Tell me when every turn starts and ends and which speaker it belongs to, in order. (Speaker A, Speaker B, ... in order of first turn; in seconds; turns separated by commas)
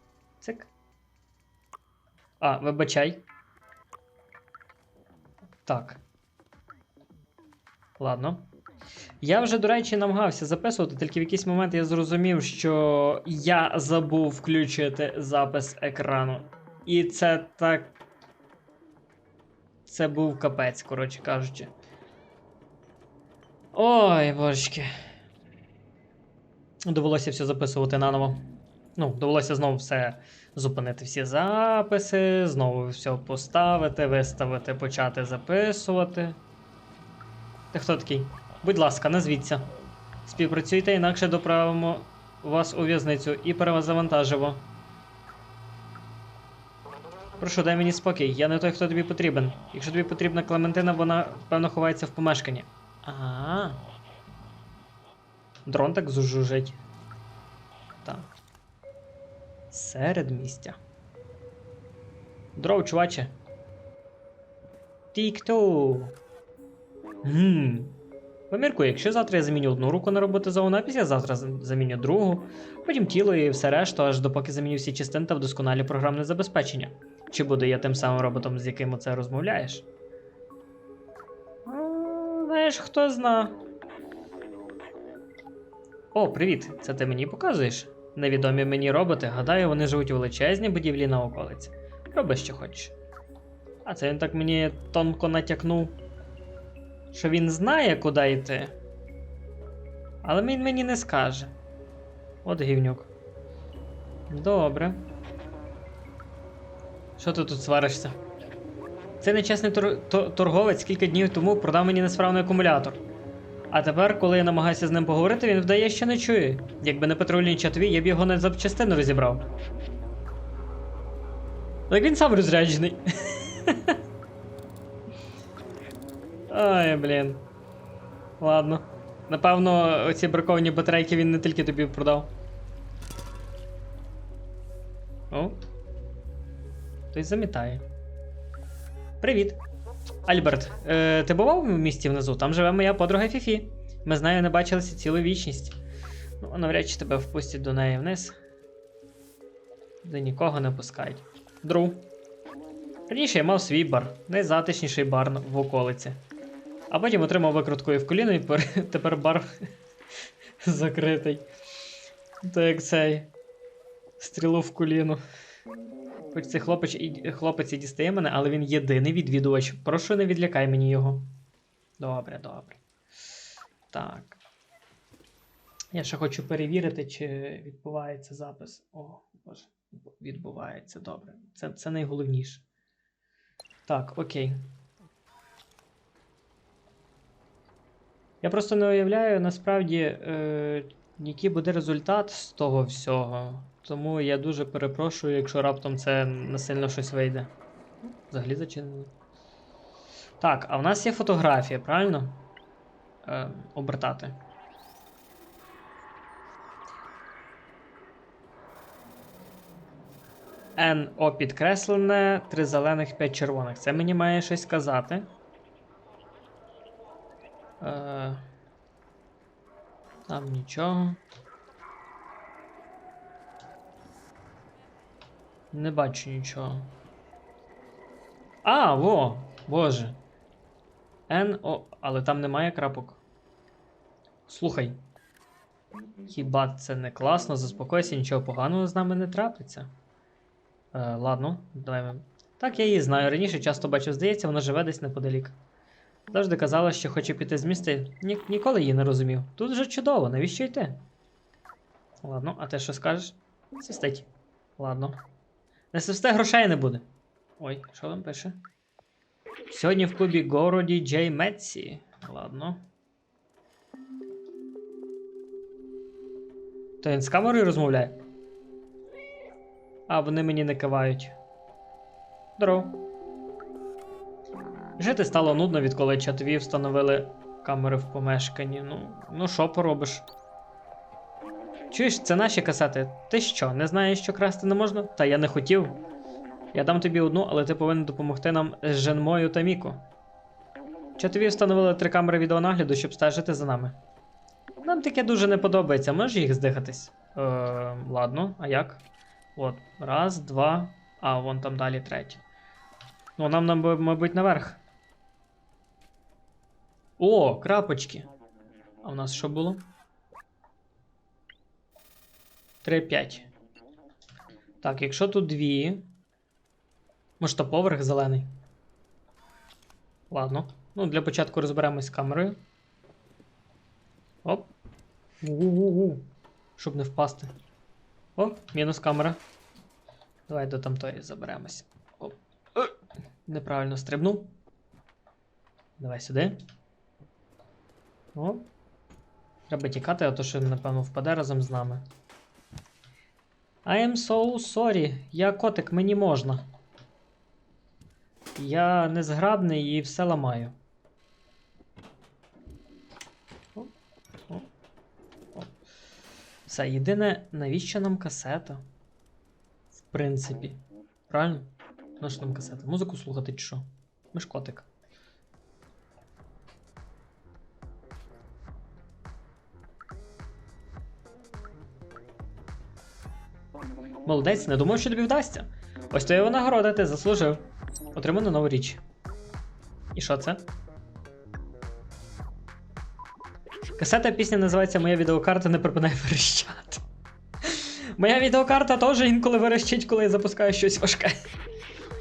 Speaker A: 0.4-0.7, Speaker A: 2.4-3.2, Speaker A: 5.7-6.0, Speaker A: 8.0-8.5, Speaker A: 9.2-17.9, Speaker A: 19.9-21.7, Speaker A: 23.7-24.9, Speaker A: 26.9-28.4, Speaker A: 29.0-36.4, Speaker A: 37.7-39.7, Speaker A: 40.2-44.6, Speaker A: 47.4-53.8, Speaker A: 55.7-56.8, Speaker A: 58.0-58.3, Speaker A: 59.7-60.8, Speaker A: 62.6-63.3, Speaker A: 65.1-66.2, Speaker A: 67.2-68.0, Speaker A: 68.5-79.9, Speaker A: 81.7-83.6, Speaker A: 86.1-93.0, Speaker A: 93.8-96.0, Speaker A: 97.1-98.8, Speaker A: 100.2-101.5, Speaker A: 102.4-103.1, Speaker A: 104.3-105.0, Speaker A: 107.2-108.2, Speaker A: 109.2-113.0, Speaker A: 113.7-119.5, Speaker A: 121.9-124.0, Speaker A: 126.5-127.5, Speaker A: 128.4-132.3, Speaker A: 135.3-135.6, Speaker A: 137.1-137.8, Speaker A: 139.2-139.6, Speaker A: 140.2-145.8, Speaker A: 146.4-148.3, Speaker A: 150.0-152.1, Speaker A: 153.1-156.2, Speaker A: 156.9-159.5, Speaker A: 160.6-161.5, Speaker A: 162.4-163.3, Speaker A: 164.2-165.2, Speaker A: 166.3-171.3, Speaker A: 172.0-172.8, Speaker A: 173.9-174.4, Speaker A: 175.9-182.7, Speaker A: 183.9-184.6, Speaker A: 188.4-197.5, Speaker A: 198.0-199.1, Speaker A: 200.4-202.4, Speaker A: 203.2-204.4, Speaker A: 210.8-215.3, Speaker A: 217.8-218.4, Speaker A: 220.3-221.2, Speaker A: 225.7-226.9, Speaker A: 228.6-230.2, Speaker A: 231.3-233.2, Speaker A: 234.5-235.0, Speaker A: 236.3-239.9, Speaker A: 240.9-245.6, Speaker A: 246.3-251.0, Speaker A: 252.2-255.2, Speaker A: 255.9-257.1, Speaker A: 257.6-258.6, Speaker A: 259.7-262.8, Speaker A: 267.0-268.2, Speaker A: 270.1-271.4, Speaker A: 272.6-273.1, Speaker A: 275.0-280.3, Speaker A: 281.9-286.0, Speaker A: 286.7-290.0, Speaker A: 291.2-294.0, Speaker A: 294.8-299.0, Speaker A: 299.6-302.4, Speaker A: 303.4-304.8, Speaker A: 307.2-308.3, Speaker A: 309.0-309.9, Speaker A: 312.8-313.5, Speaker A: 314.8-316.1, Speaker A: 317.4-318.5, Speaker A: 320.3-322.6, Speaker A: 324.4-324.7, Speaker A: 325.4-326.2, Speaker A: 326.8-327.5, Speaker A: 328.4-329.4, Speaker A: 330.5-332.9, Speaker A: 333.5-334.5, Speaker A: 336.0-336.6, Speaker A: 338.4-338.7, Speaker A: 339.7-342.0, Speaker A: 343.9-346.7, Speaker A: 348.6-350.8, Speaker A: 356.7-358.8, Speaker A: 360.0-364.9, Speaker A: 374.3-379.0, Speaker A: 380.1-380.6, Speaker A: 384.0-387.0, Speaker A: 387.6-391.4